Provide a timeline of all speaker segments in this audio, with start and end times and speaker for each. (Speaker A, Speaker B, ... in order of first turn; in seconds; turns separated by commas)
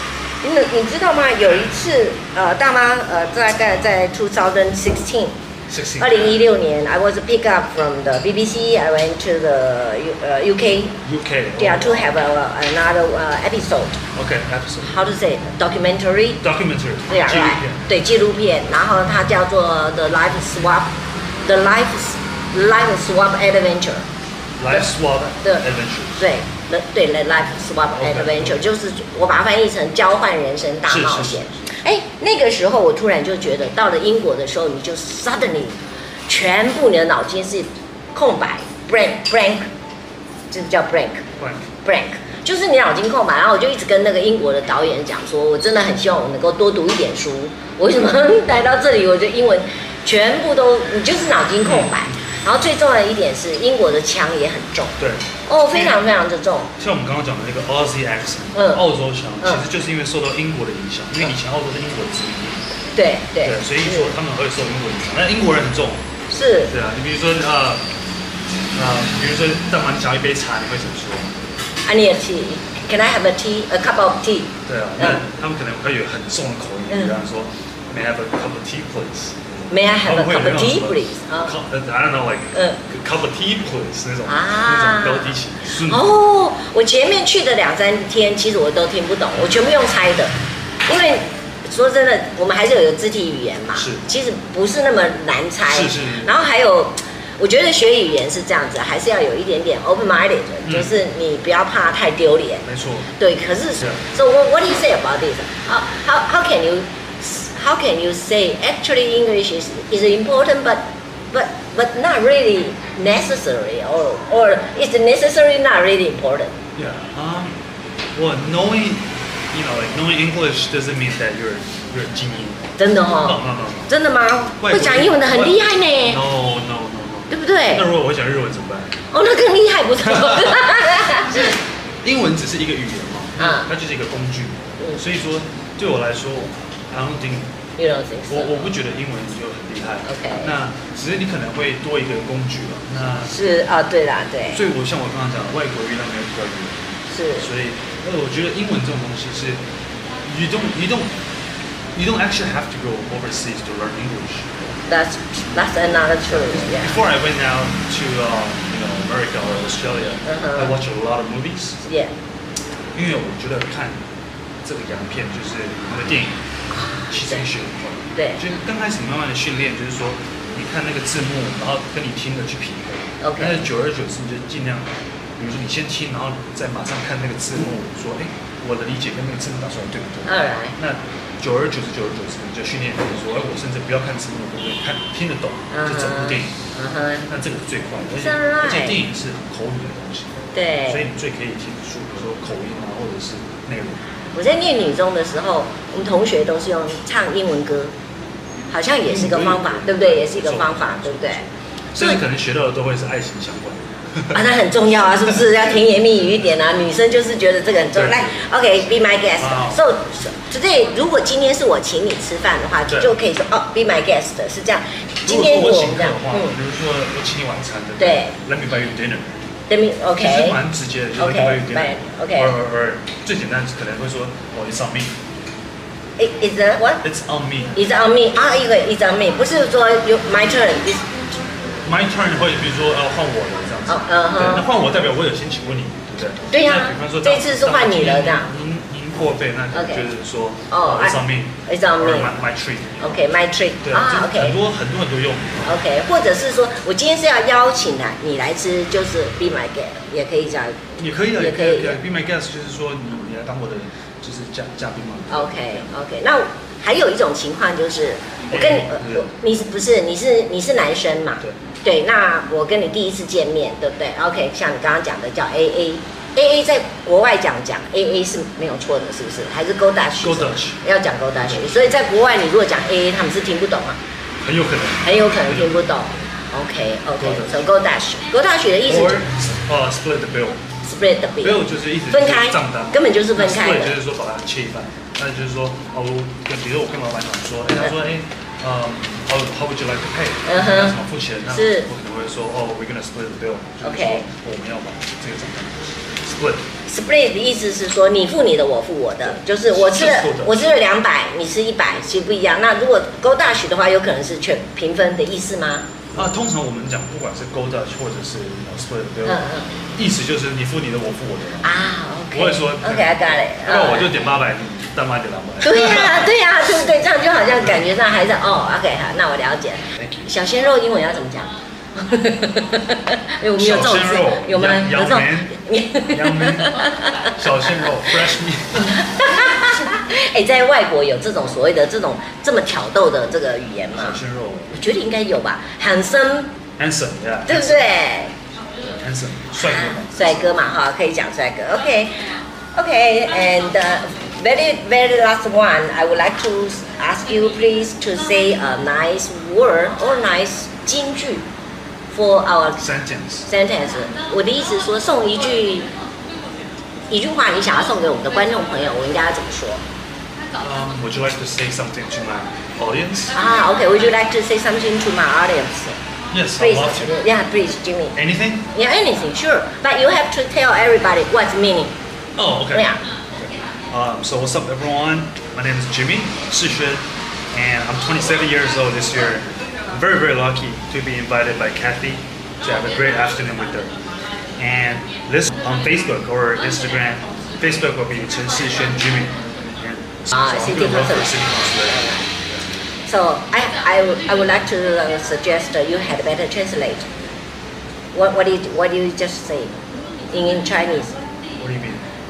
Speaker A: 0.4-5.4, Speaker B: 5.7-6.4, Speaker A: 6.0-11.0, Speaker B: 11.0-12.1, Speaker A: 11.6-14.0, Speaker B: 14.1-14.9, Speaker A: 14.8-16.4, Speaker B: 16.4-17.8, Speaker A: 17.1-24.1, Speaker B: 24.6-26.2, Speaker A: 24.7-25.6, Speaker A: 26.2-39.7, Speaker B: 27.9-28.6, Speaker B: 30.9-31.6, Speaker A: 40.5-41.2, Speaker B: 41.4-41.7, Speaker A: 41.8-56.7, Speaker B: 51.6-51.9, Speaker B: 55.0-56.0, Speaker B: 56.8-62.6, Speaker A: 58.5-58.8, Speaker A: 62.9-64.1, Speaker B: 63.4-66.0, Speaker A: 66.3-66.7, Speaker B: 66.7-67.8, Speaker B: 68.7-71.3, Speaker A: 71.8-75.2, Speaker B: 74.7-86.0, Speaker A: 76.9-77.2, Speaker A: 79.7-81.5, Speaker A: 82.5-82.8, Speaker A: 84.2-116.5, Speaker B: 93.7-94.0, Speaker B: 95.6-96.3, Speaker B: 100.6-100.9, Speaker B: 102.6-103.1, Speaker B: 116.7-117.6, Speaker B: 118.1-122.7, Speaker A: 122.8-126.2, Speaker B: 123.2-123.9, Speaker B: 124.6-129.0, Speaker A: 127.3-127.9, Speaker A: 129.1-131.5, Speaker B: 130.2-130.6, Speaker B: 132.0-137.6, Speaker A: 133.4-133.7, Speaker A: 137.8-138.7, Speaker B: 138.3-143.4, Speaker A: 140.0-140.5, Speaker A: 143.2-144.6, Speaker B: 144.5-149.6, Speaker A: 147.1-147.5, Speaker B: 150.2-151.2, Speaker B: 151.9-154.6, Speaker A: 154.8-157.0, Speaker B: 156.3-161.8, Speaker A: 160.2-160.8, Speaker A: 161.8-162.1, Speaker B: 162.9-164.0, Speaker B: 164.6-166.4, Speaker B: 167.1-186.6, Speaker A: 168.1-168.4, Speaker A: 173.2-173.7, Speaker A: 180.2-180.8, Speaker A: 185.7-187.3, Speaker B: 187.3-190.4, Speaker A: 188.1-189.0, Speaker A: 190.5-191.1, Speaker B: 190.9-194.0, Speaker A: 194.3-197.9, Speaker A: 198.7-201.4, Speaker B: 199.0-204.5, Speaker A: 204.3-216.6, Speaker B: 207.9-208.6, Speaker B: 209.3-209.8, Speaker B: 212.9-213.1, Speaker B: 215.2-219.4, Speaker A: 218.0-218.3, Speaker A: 219.7-220.6, Speaker B: 220.2-225.2, Speaker A: 221.1-222.6, Speaker A: 226.2-227.0, Speaker B: 227.0-227.8, Speaker A: 227.7-231.1, Speaker B: 231.8-245.7, Speaker A: 233.9-234.7, Speaker A: 236.5-238.5, Speaker A: 239.7-240.1, Speaker A: 240.7-242.3, Speaker A: 243.0-244.6, Speaker A: 245.6-252.0, Speaker B: 251.0-255.9, Speaker A: 255.3-274.0, Speaker B: 258.5-259.3, Speaker B: 270.2-270.8, Speaker B: 271.4-271.8, Speaker B: 274.4-276.2, Speaker A: 275.0-279.3, Speaker B: 277.2-277.7, Speaker B: 278.9-280.6, Speaker A: 280.8-284.0, Speaker B: 281.4-296.7, Speaker A: 290.4-290.9, Speaker A: 291.5-291.9, Speaker A: 293.8-294.2, Speaker A: 296.9-306.1, Speaker B: 299.2-300.7, Speaker B: 306.1-311.7, Speaker A: 309.2-309.8, Speaker A: 311.6-314.1, Speaker B: 312.3-316.4, Speaker A: 315.6-327.4, Speaker B: 319.9-320.3, Speaker B: 323.6-325.6, Speaker B: 326.1-329.0, Speaker A: 328.8-334.2, Speaker B: 333.9-334.7, Speaker A: 334.7-336.6, Speaker B: 336.8-337.9, Speaker A: 337.5-338.3, Speaker B: 338.8-340.4, Speaker A: 339.5-351.4, Speaker A: 352.1-352.9, Speaker B: 352.8-353.5, Speaker A: 353.4-355.9, Speaker A: 357.1-359.8, Speaker B: 360.6-363.4, Speaker A: 363.3-366.0, Speaker B: 366.3-367.1, Speaker A: 366.6-368.1, Speaker B: 368.1-368.7, Speaker A: 368.7-371.9, Speaker B: 372.4-372.9, Speaker A: 372.7-373.0, Speaker B: 373.4-383.9, Speaker B: 384.6-392.8, Speaker A: 390.3-392.3, Speaker A: 393.1-397.1, Speaker A: 398.1-401.2, Speaker B: 401.6-402.1